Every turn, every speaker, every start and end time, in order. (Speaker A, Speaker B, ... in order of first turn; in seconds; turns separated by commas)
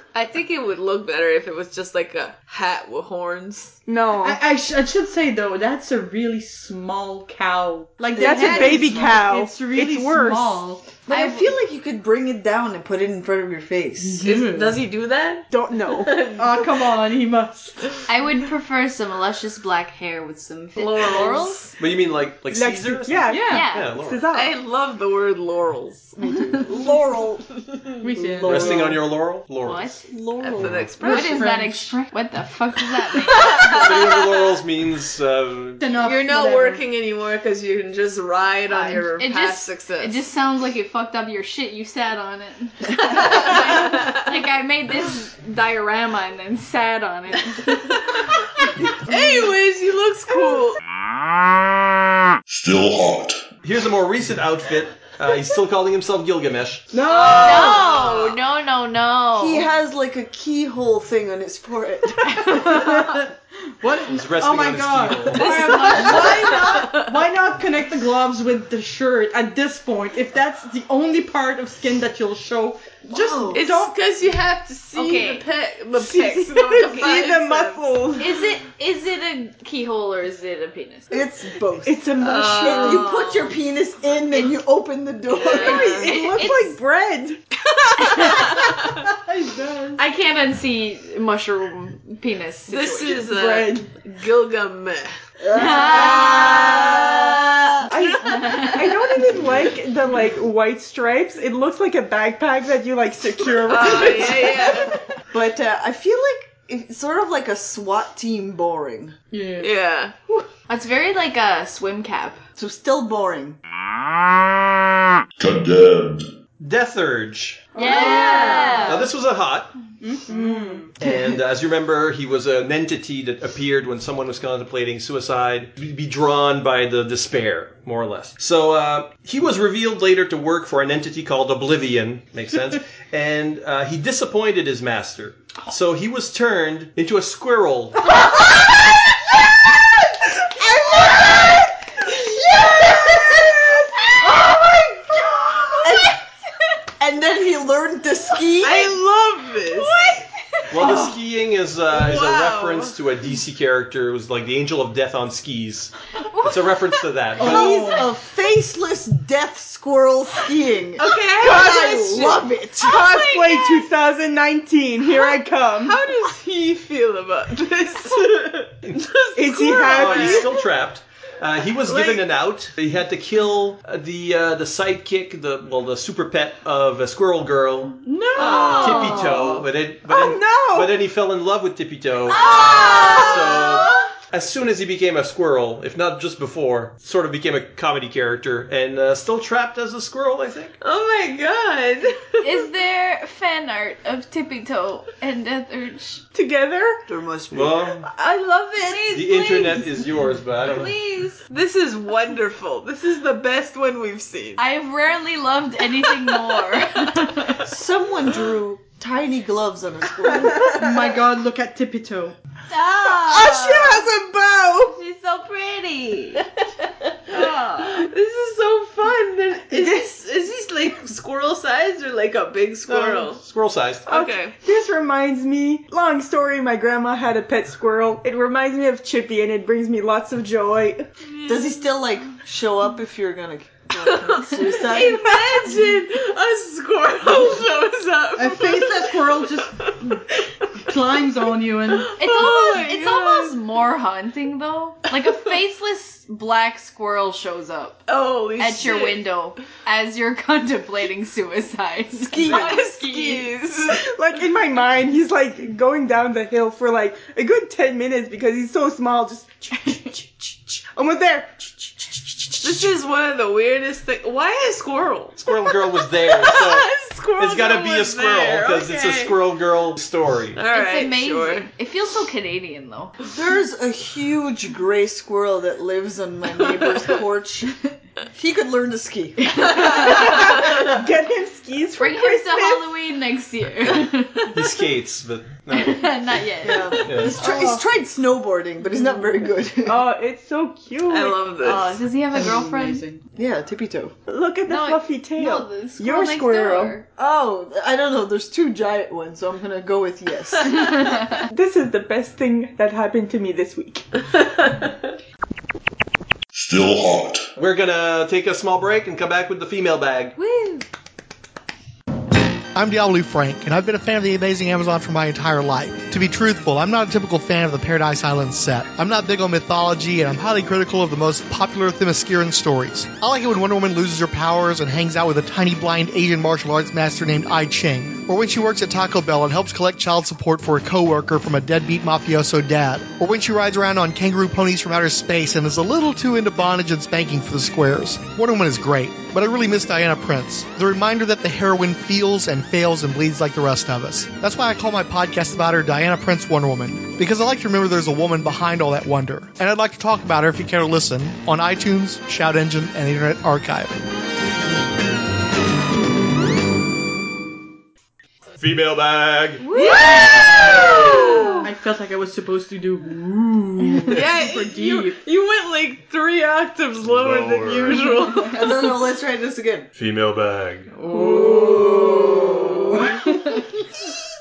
Speaker A: 0.1-3.8, Speaker B: 3.9-4.4, Speaker C: 4.2-11.0, Speaker B: 8.1-10.6, Speaker D: 8.2-9.1, Speaker D: 11.1-14.3, Speaker E: 11.1-11.5, Speaker C: 14.1-14.8, Speaker A: 14.2-16.9, Speaker B: 15.5-16.2, Speaker C: 16.3-17.8, Speaker E: 18.1-21.7, Speaker A: 20.8-21.7, Speaker F: 21.8-24.3, Speaker B: 22.5-24.5, Speaker C: 23.2-23.7, Speaker E: 23.5-23.9, Speaker A: 24.3-26.2, Speaker D: 26.2-27.4, Speaker A: 27.6-27.9, Speaker C: 28.0-28.9, Speaker B: 28.1-28.9, Speaker D: 28.4-28.8, Speaker F: 28.4-30.0, Speaker E: 29.6-30.0, Speaker D: 30.1-30.9, Speaker A: 30.4-31.6, Speaker F: 30.6-30.9, Speaker C: 31.0-32.0, Speaker E: 31.0-33.8, Speaker A: 33.3-34.4, Speaker F: 33.6-35.9, Speaker C: 35.8-36.8, Speaker A: 36.0-40.2, Speaker E: 38.8-47.9, Speaker A: 49.1-50.8, Speaker G: 52.5-53.4, Speaker F: 53.6-56.9, Speaker C: 56.9-57.9, Speaker A: 57.1-58.4, Speaker E: 57.2-59.7, Speaker D: 59.4-62.7, Speaker C: 62.4-73.9, Speaker F: 63.8-65.8, Speaker A: 65.3-67.1, Speaker E: 65.5-66.3, Speaker D: 73.1-73.6, Speaker A: 73.5-78.0, Speaker E: 75.0-75.5, Speaker B: 76.0-78.4, Speaker E: 78.2-81.2, Speaker D: 81.1-86.0, Speaker B: 81.8-83.1, Speaker A: 82.2-83.1, Speaker E: 82.6-83.5, Speaker A: 85.5-86.1, Speaker B: 85.5-87.4, Speaker E: 85.5-86.8, Speaker A: 88.0-88.7, Speaker C: 89.2-90.0, Speaker E: 90.0-93.3, Speaker A: 92.7-95.1, Speaker B: 93.1-93.9, Speaker D: 95.4-97.8, Speaker E: 95.5-97.1, Speaker B: 95.8-96.8, Speaker A: 96.1-96.7, Speaker B: 97.8-104.9, Speaker A: 98.0-98.7, Speaker E: 98.2-98.8, Speaker A: 103.7-105.0, Speaker D: 104.0-104.3, Speaker D: 105.3-109.2, Speaker C: 109.3-109.7, Speaker A: 109.6-110.4, Speaker E: 110.7-112.4, Speaker D: 112.6-113.6, Speaker G: 115.4-116.3, Speaker F: 116.6-117.7, Speaker B: 117.8-119.0, Speaker E: 117.8-119.1, Speaker C: 117.8-118.8, Speaker F: 118.8-119.8, Speaker C: 120.0-120.9, Speaker B: 120.3-120.9, Speaker F: 121.0-138.1, Speaker D: 140.6-141.7, Speaker D: 142.6-143.6, Speaker D: 144.4-144.7, Speaker D: 145.8-146.2, Speaker D: 147.0-149.0, Speaker A: 148.6-150.2, Speaker F: 150.7-157.9, Speaker C: 150.8-151.2, Speaker A: 151.9-152.9, Speaker C: 157.4-158.1, Speaker D: 157.4-163.0, Speaker A: 161.0-163.9, Speaker B: 162.8-166.0, Speaker A: 165.1-170.7, Speaker B: 169.3-170.5, Speaker F: 169.8-178.0, Speaker A: 171.9-172.3, Speaker C: 178.1-179.5, Speaker A: 178.4-179.2, Speaker E: 178.4-179.6, Speaker F: 178.6-182.4, Speaker B: 180.1-181.0, Speaker E: 182.3-183.7, Speaker A: 182.4-183.4, Speaker F: 183.1-190.8, Speaker A: 190.8-192.7, Speaker E: 192.4-196.2, Speaker B: 196.3-197.0, Speaker D: 197.1-197.9, Speaker F: 197.5-198.0, Speaker A: 198.2-198.9, Speaker E: 198.8-201.4, Speaker F: 199.1-200.9, Speaker A: 201.5-204.6, Speaker E: 204.6-207.6, Speaker D: 207.6-210.8, Speaker C: 210.7-212.3, Speaker E: 212.7-214.1, Speaker B: 213.0-215.0, Speaker E: 214.9-216.4, Speaker A: 217.3-223.4, Speaker E: 217.3-217.9, Speaker B: 219.7-220.1, Speaker F: 222.9-224.1, Speaker A: 224.1-224.6, Speaker B: 224.1-231.1, Speaker A: 231.3-231.6, Speaker D: 231.4-235.2, Speaker A: 234.0-239.9, Speaker C: 238.4-240.2, Speaker C: 240.9-242.2, Speaker A: 241.9-243.6, Speaker E: 242.2-248.0, Speaker A: 248.1-249.2, Speaker E: 248.6-253.5, Speaker D: 252.2-252.8, Speaker A: 252.4-254.1, Speaker B: 253.9-262.9, Speaker A: 262.6-269.4, Speaker F: 265.4-270.6, Speaker A: 270.6-271.7, Speaker E: 270.7-273.1, Speaker D: 273.3-277.8, Speaker D: 278.3-279.9, Speaker B: 280.0-282.9, Speaker E: 282.0-284.7, Speaker F: 284.5-286.1, Speaker E: 285.7-287.8, Speaker D: 286.6-290.1, Speaker F: 287.0-287.4, Speaker B: 289.9-291.5, Speaker A: 291.1-292.0, Speaker E: 291.6-293.1, Speaker C: 292.3-293.2, Speaker D: 293.4-294.1, Speaker B: 294.3-297.0, Speaker E: 294.7-297.1, Speaker D: 297.2-301.0, Speaker B: 301.1-304.1, Speaker G: 306.5-307.5, Speaker F: 307.6-310.4, Speaker E: 310.4-310.9, Speaker H: 312.7-354.0, Speaker F: 358.6-359.7, Speaker E: 359.6-361.5, Speaker A: 359.7-361.5, Speaker C: 361.6-365.2, Speaker A: 364.1-369.0, Speaker F: 367.0-368.1, Speaker D: 368.5-369.9, Speaker F: 370.0-370.9, Speaker A: 371.0-372.7, Speaker B: 371.1-371.9, Speaker C: 371.2-371.5, Speaker D: 371.3-373.0